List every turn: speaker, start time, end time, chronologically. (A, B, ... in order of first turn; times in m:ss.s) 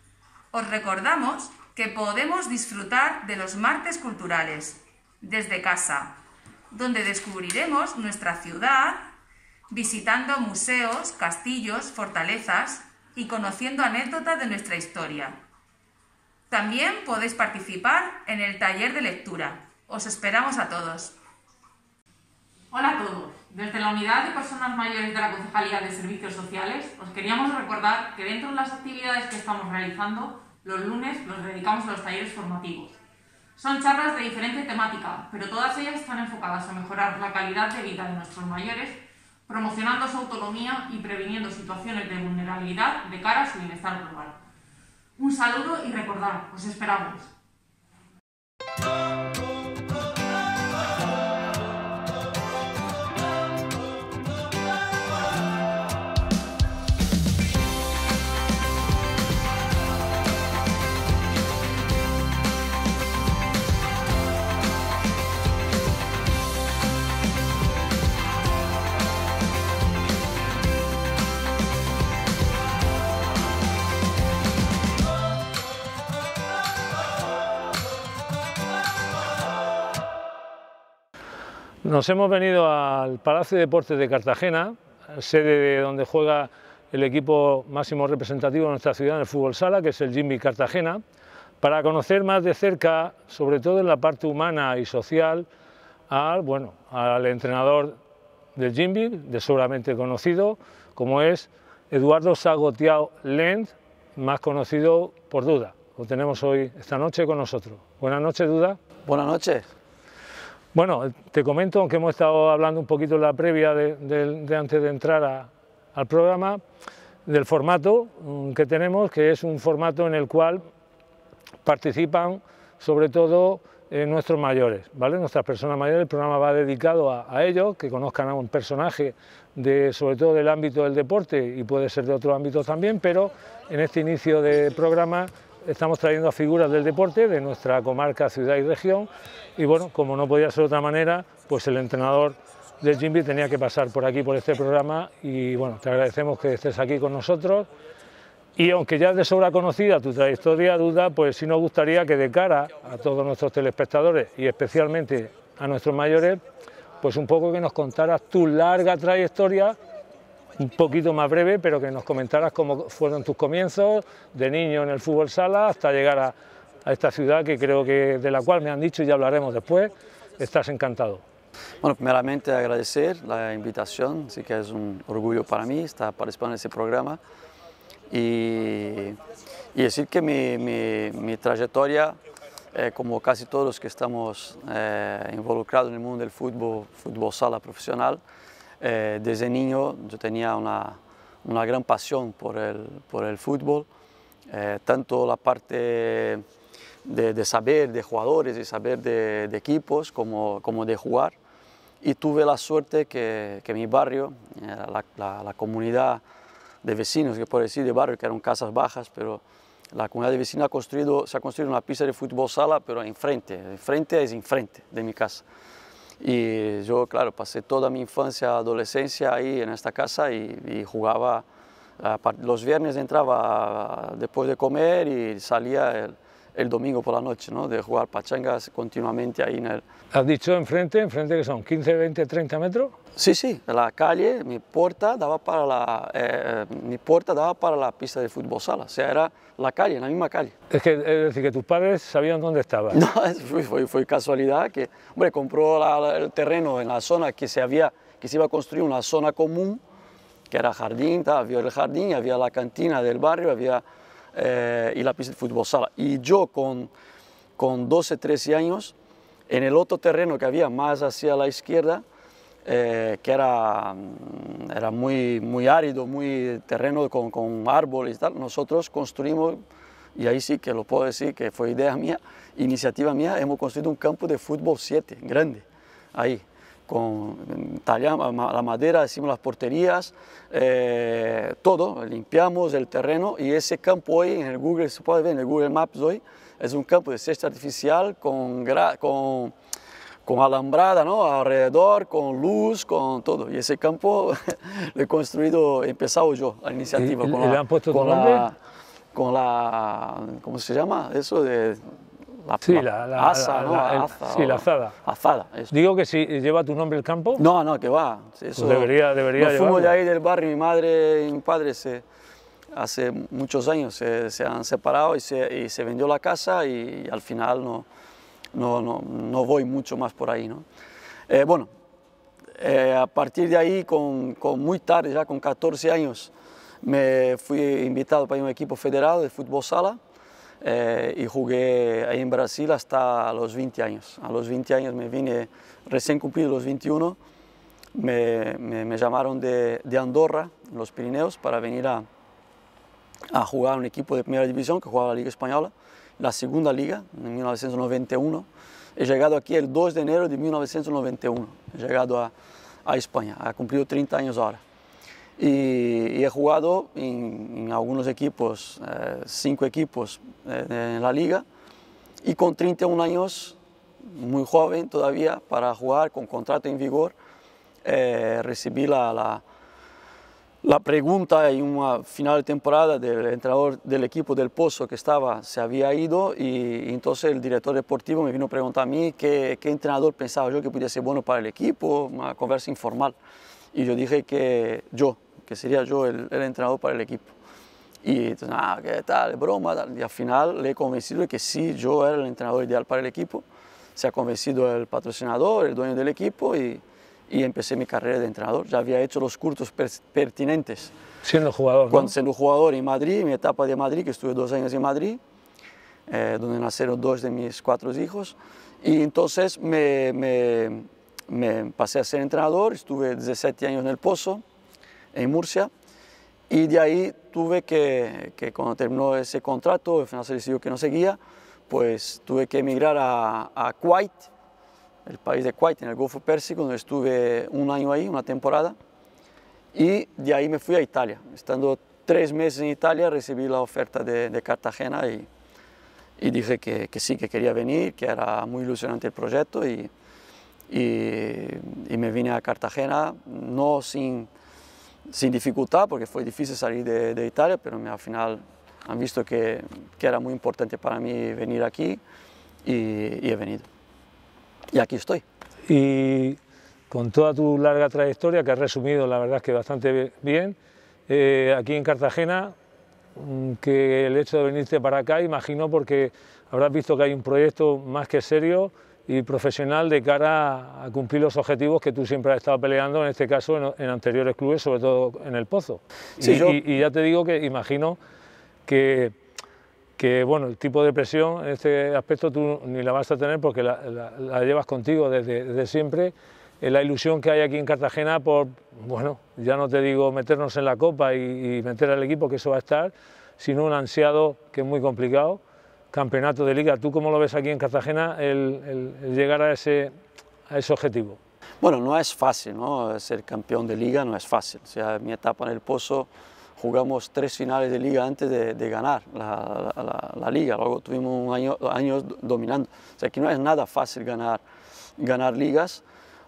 0:00.5-0:06.1 A
0:06.7-0:09.0 A
0:09.7-0:15.4 A
0:16.5-0:21.1 A
0:22.7-0:33.0 B
0:33.6-0:44.4 B
0:45.2-0:47.3 B
1:21.8-1:31.0 C
1:31.6-1:35.5 C
1:36.1-1:38.0 C
1:38.6-1:48.8 C
1:49.1-1:49.7 D
1:50.7-1:56.6 C
1:57.3-2:00.6 C
2:01.6-2:27.7 C
2:28.6-2:36.4 C
2:37.0-2:39.8 C
2:40.6-2:46.3 C
2:46.8-2:51.2 C
2:51.8-2:57.2 D
2:58.1-2:59.2 D
2:59.7-3:02.2 D
3:02.7-3:08.2 D
3:08.8-3:13.9 D
3:14.5-3:16.4 D
3:17.1-3:21.4 D
3:22.0-3:26.2 D
3:26.8-3:29.4 D
3:29.9-3:35.4 D
3:36.2-3:41.4 D
3:42.0-3:49.8 D
3:50.1-3:52.9 C
3:53.2-4:00.5 D
4:00.7-4:03.0 C
4:02.9-4:09.8 D
4:10.5-4:16.9 D
4:17.6-4:18.9 D
4:19.5-4:22.0 D
4:22.6-4:29.6 D
4:30.2-4:49.5 D
4:50.3-4:58.6 D
4:57.0-4:58.4 C
4:59.1-5:01.9 D
5:02.4-5:05.7 D
5:02.7-5:05.0 C
5:05.7-5:07.4 C
5:07.4-5:12.0 D
5:08.6-5:09.9 C
5:12.7-5:17.9 D
5:18.5-5:20.7 D
5:21.3-5:21.7 D
5:22.6-5:26.3 D
5:26.8-5:30.0 D
5:30.6-5:37.2 D
5:38.0-5:42.1 D
5:43.3-5:52.3 D
5:52.8-5:54.6 D
5:55.4-6:01.4 D
6:02.2-6:07.1 D
6:07.8-6:09.4 D
6:10.6-6:23.2 D
6:23.7-6:27.3 D
6:28.0-6:33.4 D
6:34.0-6:40.9 D
6:41.2-6:42.1 C
6:41.9-6:45.2 D
6:46.1-6:54.4 D
6:55.1-6:55.7 D
6:56.5-7:01.2 D
7:01.7-7:04.3 D
7:05.1-7:08.8 D
7:09.7-7:15.3 D
7:16.2-7:19.9 D
7:20.7-7:24.3 D
7:25.1-7:32.0 D
7:32.6-7:33.7 D
7:34.7-7:35.2 D
7:35.7-7:36.4 C
7:36.9-7:40.6 C
7:41.1-7:42.5 C
7:43.2-7:58.0 C
7:56.2-7:56.6 D
7:58.7-7:59.1 C
8:00.0-8:15.4 C
8:15.9-8:19.9 C
8:20.5-8:21.2 C
8:21.6-8:34.4 D
8:35.0-8:35.8 D